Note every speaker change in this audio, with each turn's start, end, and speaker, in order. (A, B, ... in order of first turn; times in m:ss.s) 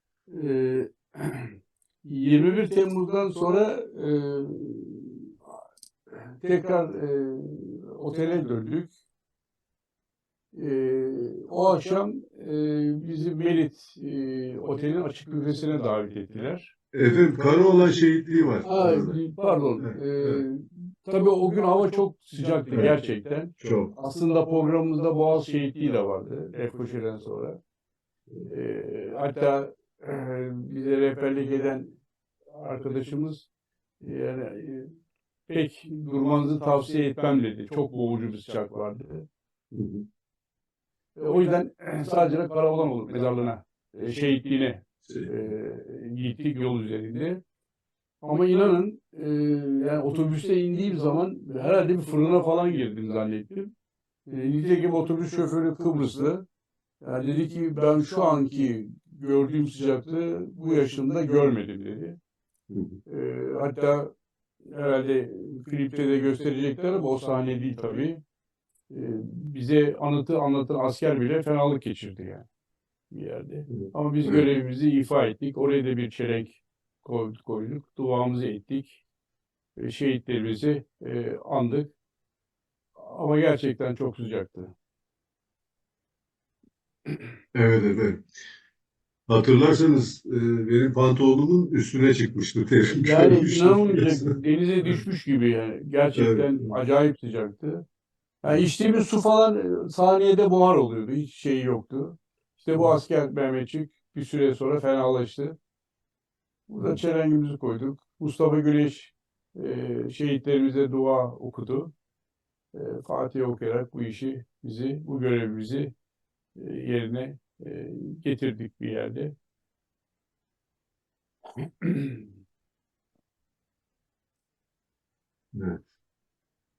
0:00.3-0:05.5 A
0:06.1-0:08.9 A
0:10.5-0:16.7 A
0:16.9-0:19.2 B
0:18.6-0:27.6 A
0:19.8-0:20.4 B
0:23.6-0:23.9 B
0:28.5-0:32.0 A
0:32.5-0:33.5 A
0:34.0-0:34.9 A
0:35.5-0:39.3 A
0:39.7-0:40.0 B
0:41.2-0:47.4 A
0:45.1-0:45.3 B
0:48.2-0:53.7 A
0:54.3-0:56.4 A
0:57.0-1:02.2 A
1:02.7-1:03.0 B
1:03.1-1:04.1 A
1:04.6-1:08.2 A
1:08.9-1:12.4 A
1:13.1-1:19.0 A
1:13.7-1:14.5 B
1:19.8-1:21.9 A
1:23.0-1:24.7 A
1:27.5-1:28.2 B
1:29.3-1:34.3 B
1:33.0-1:37.8 A
1:36.2-1:36.7 B
1:38.4-1:45.6 A
1:46.7-1:51.9 A
1:52.7-1:55.9 A
1:56.6-1:59.4 A
2:01.6-2:02.3 A
2:05.5-2:05.8 B